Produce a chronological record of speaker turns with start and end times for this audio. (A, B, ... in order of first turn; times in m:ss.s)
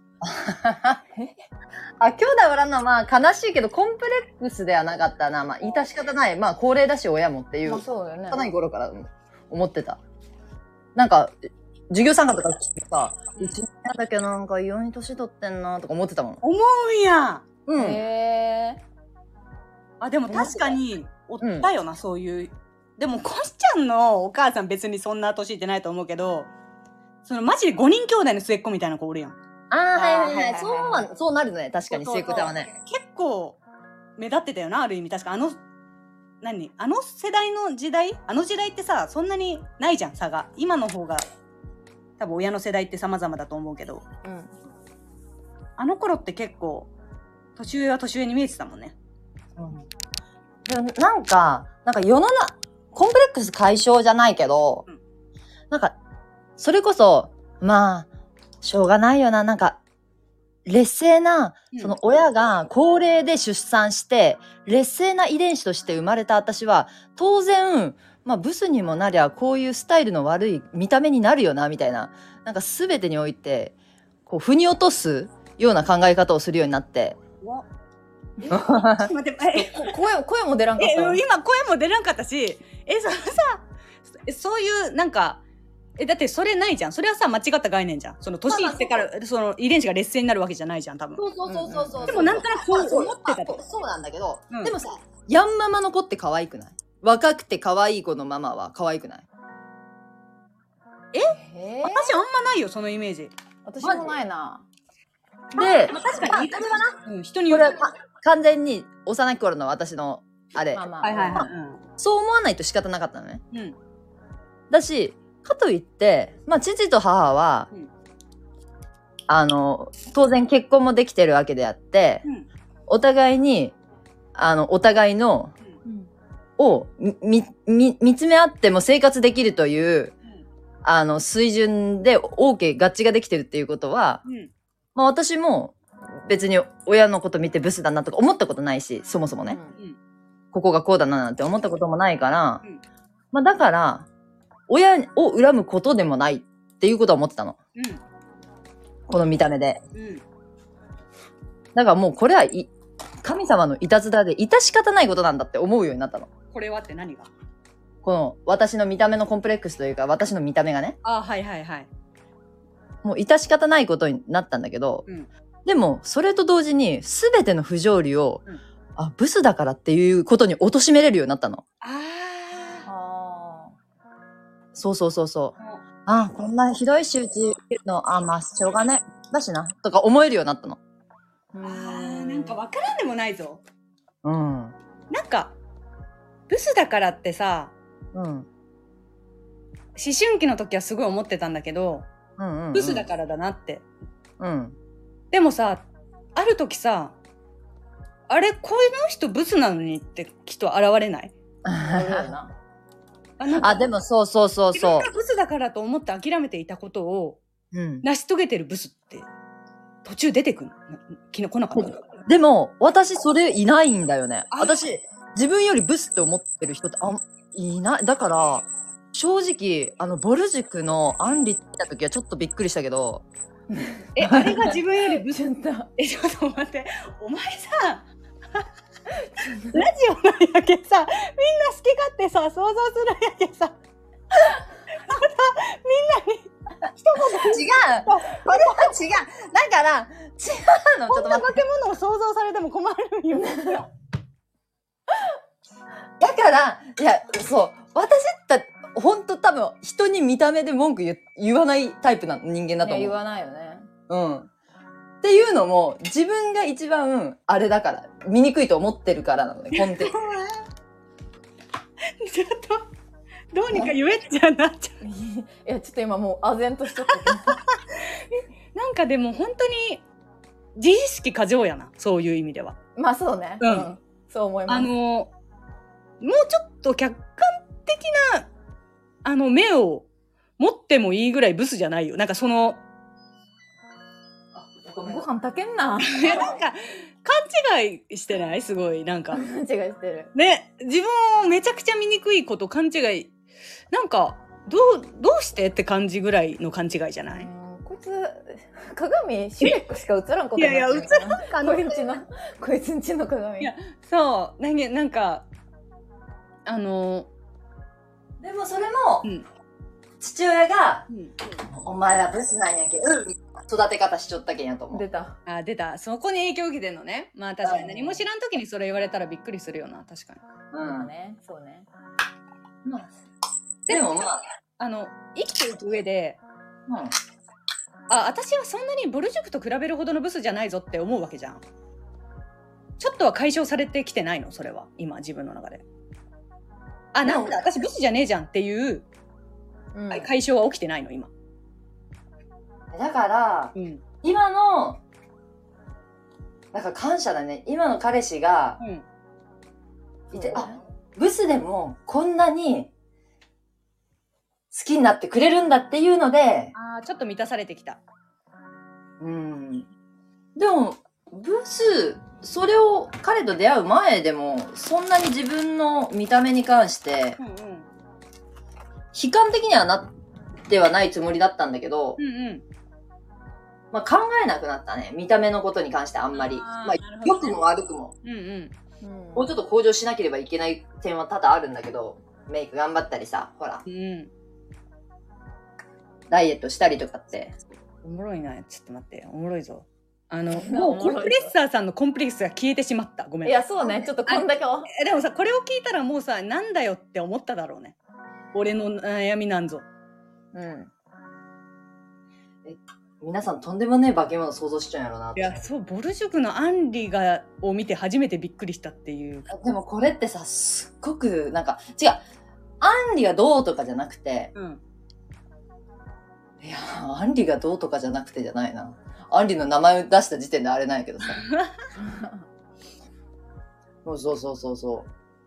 0:00.2-0:01.0 A
0:02.0-0:10.0 A
0:07.6-0:08.5 B
0:11.0-0:11.4 A
0:11.9-0:16.4 A
0:16.4-0:17.4 C
0:17.7-0:18.0 A
0:17.8-0:18.8 B
0:20.0-0:26.5 C
0:20.3-0:20.8 A
0:21.4-0:21.7 A
0:27.2-0:29.4 C
0:29.7-0:32.7 A
0:29.9-0:31.1 B
0:31.9-0:33.6 C
0:34.2-0:35.6 C
0:36.4-0:41.2 C
0:42.2-0:44.0 C
0:44.2-0:44.5 B
0:45.8-0:46.9 C
0:47.6-0:49.0 C
0:49.6-0:49.9 A
0:50.7-0:54.8 A
0:56.6-0:58.1 A
0:58.6-0:59.8 A
1:00.6-1:13.7 A
1:14.3-1:17.2 A
1:18.4-1:18.7 B
1:18.5-1:19.9 C
1:18.5-1:19.1 A
1:19.5-1:21.2 B
1:20.8-1:23.6 C
1:24.2-1:25.4 C
1:26.0-1:33.6 C
1:28.5-1:29.1 A
1:31.2-1:39.3 A
1:31.5-1:32.4 B
1:41.1-1:43.3 C
1:41.3-1:42.2 B
1:43.6-1:44.7 B
1:43.8-1:44.1 A
1:45.6-1:46.9 A
1:45.6-1:47.8 C
1:47.5-1:53.4 A
1:50.7-1:51.5 B
1:51.0-1:51.8 C
1:54.7-1:57.7 A
1:59.3-2:02.2 A
2:02.9-2:03.8 A
2:04.4-2:05.5 A
2:05.8-2:06.1 B
2:06.6-2:10.1 A
2:10.8-2:14.2 A
2:14.2-2:14.5 C
2:15.0-2:19.6 A
2:19.5-2:19.8 B
2:20.5-2:22.6 A
2:23.3-2:24.1 A
2:24.7-2:27.6 A
2:27.8-2:28.0 C
2:29.1-2:29.8 A
2:30.0-2:30.2 C
2:31.7-2:32.7 A
2:33.2-2:36.3 A
2:36.5-2:37.3 C
2:38.0-2:41.0 A
2:41.0-2:41.9 C
2:43.0-2:45.0 A
2:45.6-2:48.4 A
2:49.0-2:51.6 A
2:51.8-2:52.9 C
2:52.9-2:53.8 B
2:54.8-3:00.8 A
3:01.5-3:02.6 B
3:01.6-3:03.6 C
3:04.2-3:04.8 A
3:05.1-3:05.6 C
3:06.5-3:07.7 C
3:08.1-3:08.5 A
3:10.0-3:12.1 C
3:12.4-3:13.1 A
3:12.7-3:13.8 C
3:14.4-3:14.8 A
3:15.3-3:17.2 C
3:18.3-3:21.3 C
3:21.6-3:22.4 A
3:21.7-3:22.5 B
3:23.4-3:23.9 C
3:23.6-3:25.1 A
3:24.8-3:27.4 C
3:27.7-3:28.0 A
3:28.0-3:29.3 C
3:30.0-3:32.0 C
3:31.8-3:43.2 A
3:34.5-3:34.8 C
3:44.2-3:48.1 C
3:44.3-3:44.5 A
3:45.3-3:45.9 B
3:49.4-3:49.7 B
3:49.5-3:53.8 C
3:54.3-3:58.9 C
3:57.3-4:01.6 A
4:01.1-4:03.9 C
4:06.2-4:13.2 A
4:12.8-4:13.9 B
4:14.1-4:14.5 A
4:15.2-4:20.2 A
4:19.7-4:20.6 C
4:22.2-4:22.9 C
4:23.5-4:25.0 C
4:25.0-4:27.6 B
4:27.2-4:30.0 C
4:30.8-4:32.8 C
4:33.0-4:34.9 B
4:33.6-4:33.9 C
4:34.7-4:35.3 C
4:36.2-4:38.5 C
4:39.2-4:40.1 C
4:40.6-4:42.8 C
4:44.5-4:45.2 A
4:45.0-4:46.6 B
4:46.2-4:49.4 C
4:49.3-4:50.3 B
4:50.3-4:53.3 C
4:53.9-4:57.5 C
4:57.3-5:03.7 B
5:00.6-5:02.0 C
5:03.6-5:05.5 C
5:06.7-5:07.3 C
5:08.4-5:09.3 A
5:10.2-5:11.0 A
5:11.6-5:15.0 A
5:14.9-5:15.4 B
5:15.5-5:20.4 C
5:17.6-5:18.2 A
5:20.7-5:21.1 A
5:20.8-5:21.9 B
5:22.8-5:23.1 A
5:23.9-5:24.2 C
5:23.9-5:24.4 A
5:24.8-5:26.4 C
5:26.9-5:27.1 A
5:28.1-5:31.6 C
5:33.0-5:35.8 C
5:37.1-5:39.1 C
5:37.2-5:37.6 A
5:39.9-5:40.3 B
5:40.1-5:41.3 C
5:42.9-5:45.0 A
5:43.8-5:44.0 C
5:46.7-5:48.8 A
5:48.8-5:49.0 C
5:50.3-5:50.8 B
5:50.3-5:52.9 A
5:54.7-5:56.7 A
5:56.8-5:58.0 C
5:59.2-5:59.9 A
6:00.6-6:07.4 A
6:07.4-6:07.9 C
6:09.1-6:10.1 A
6:10.7-6:12.2 A
6:12.2-6:12.6 C
6:13.9-6:18.1 A
6:16.3-6:17.6 C
6:18.2-6:18.8 C
6:19.0-6:19.5 B
6:19.4-6:23.8 A
6:23.9-6:24.3 C
6:26.3-6:27.5 A
6:28.0-6:33.7 C
6:30.6-6:31.5 B
6:33.4-6:34.9 B
6:34.3-6:38.0 C
6:38.5-6:39.8 C
6:40.5-6:40.9 B
6:42.6-6:45.6 A
6:45.4-6:49.5 C
6:49.5-6:52.2 A
6:52.8-6:54.5 A
6:54.6-6:54.8 C
6:56.6-7:01.4 A
7:01.3-7:01.8 C
7:02.0-7:02.4 B
7:04.0-7:05.1 A